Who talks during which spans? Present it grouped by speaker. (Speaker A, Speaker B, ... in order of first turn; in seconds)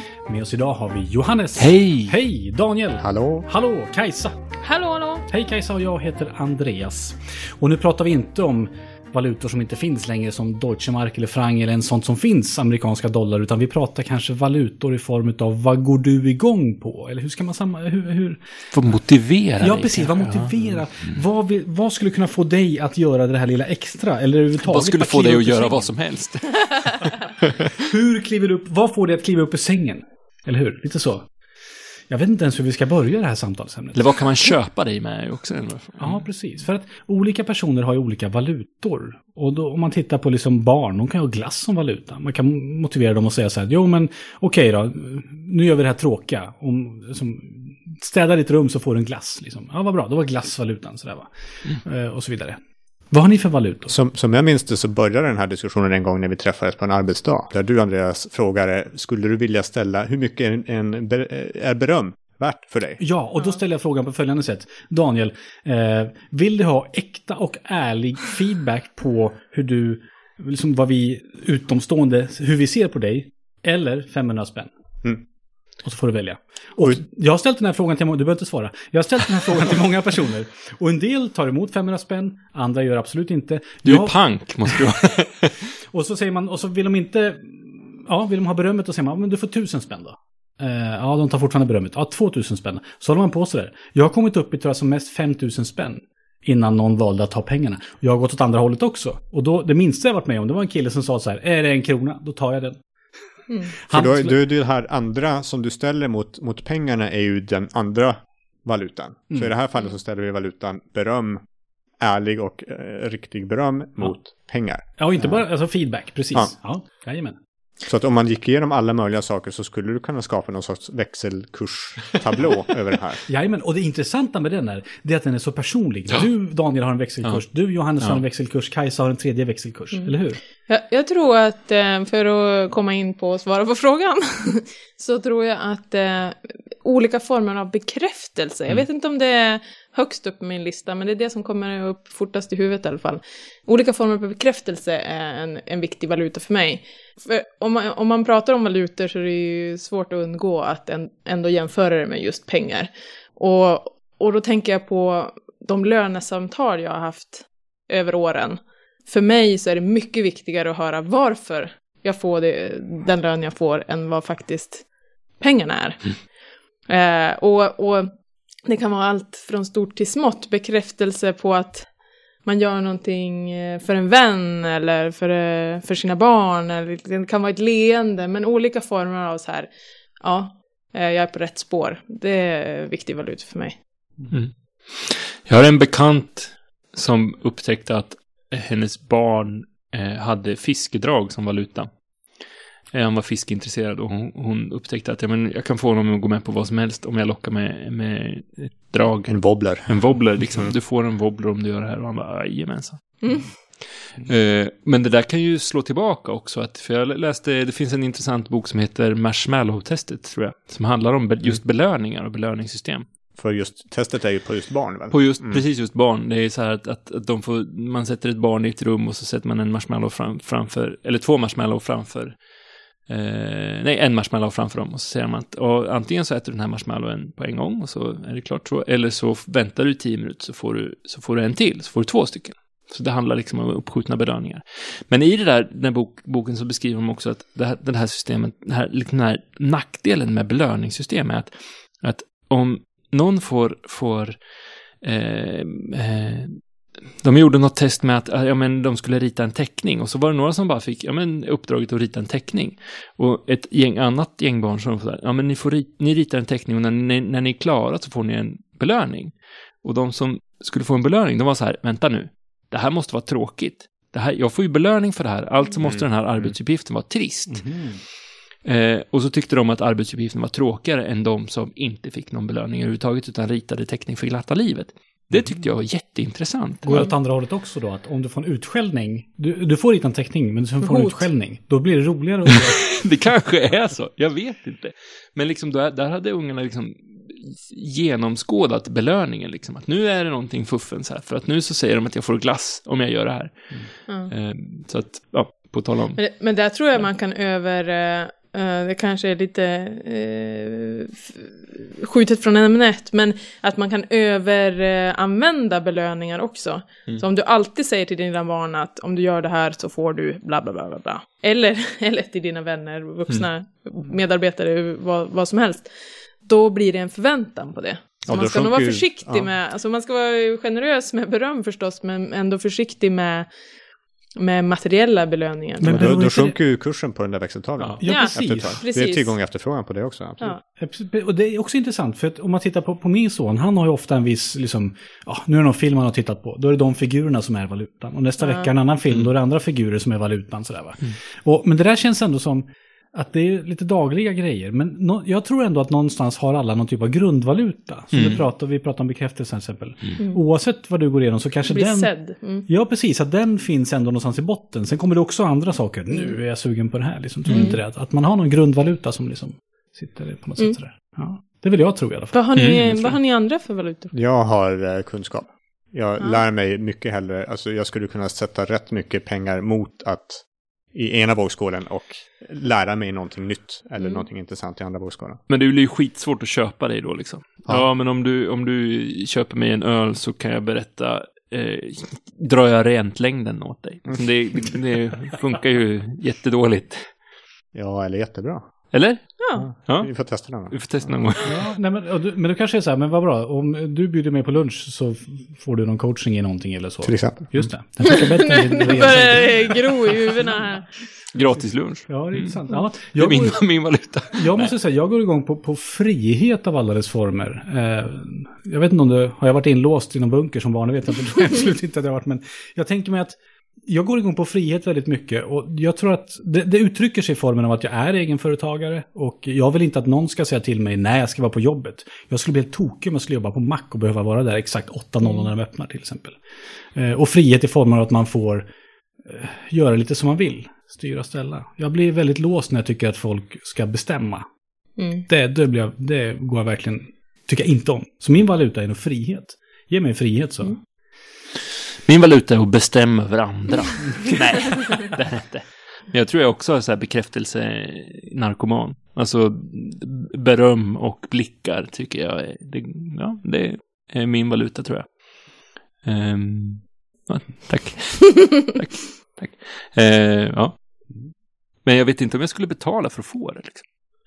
Speaker A: 0.3-4.4, 5.3-18.4, 19.6-25.9, 27.8-31.2, 32.1-34.2, 36.0-52.6, 53.1-53.9, 63.0-74.7, 75.8-84.2, 85.9-102.8, 103.9-104.3, 115.0-117.4, 123.3-130.4, 267.5-268.0, 276.8-282.9, 325.8-326.6, 328.0-328.8, 330.7-352.1, 352.7-362.3, 391.4-399.8, 402.1-403.7, 404.3-413.4, 413.9-426.4, 426.9-428.6, 429.2-434.4, 435.3-440.8
Speaker B: 1.6-2.1, 18.7-20.5, 24.6-27.5, 33.9-36.2, 83.8-85.6, 184.3-191.9, 192.9-203.5, 204.1-213.1, 215.1-222.4, 223.1-244.4, 245.0-246.6, 247.2-267.6, 268.6-277.1, 282.5-293.6, 294.3-296.2, 348.1-348.4, 357.5-357.7, 362.6-363.1, 375.5-387.0, 388.9-391.6, 401.3-404.7, 442.1-455.1, 456.0-460.8, 461.8-463.8
Speaker C: 3.0-3.5, 53.9-63.0, 103.9-111.4, 112.0-115.4, 117.8-123.2, 199.3-200.7, 213.3-215.6, 265.9-266.6, 318.2-319.5, 325.8-330.5, 364.1-370.4, 370.9-375.4, 387.8-388.6, 389.5-391.1, 397.0-397.7
Speaker D: 4.6-5.2, 130.7-164.8, 165.4-166.1, 166.9-168.1, 168.6-171.9, 172.4-179.7, 180.2-183.8, 203.2-203.5, 280.8-281.3, 296.1-315.9, 316.4-323.5, 324.4-326.1, 328.1-329.4, 338.4-338.7, 351.7-352.6, 357.5-357.8, 362.3-364.1, 374.0-374.2, 389.4-389.6, 398.2-400.9, 425.2-425.5, 435.0-435.2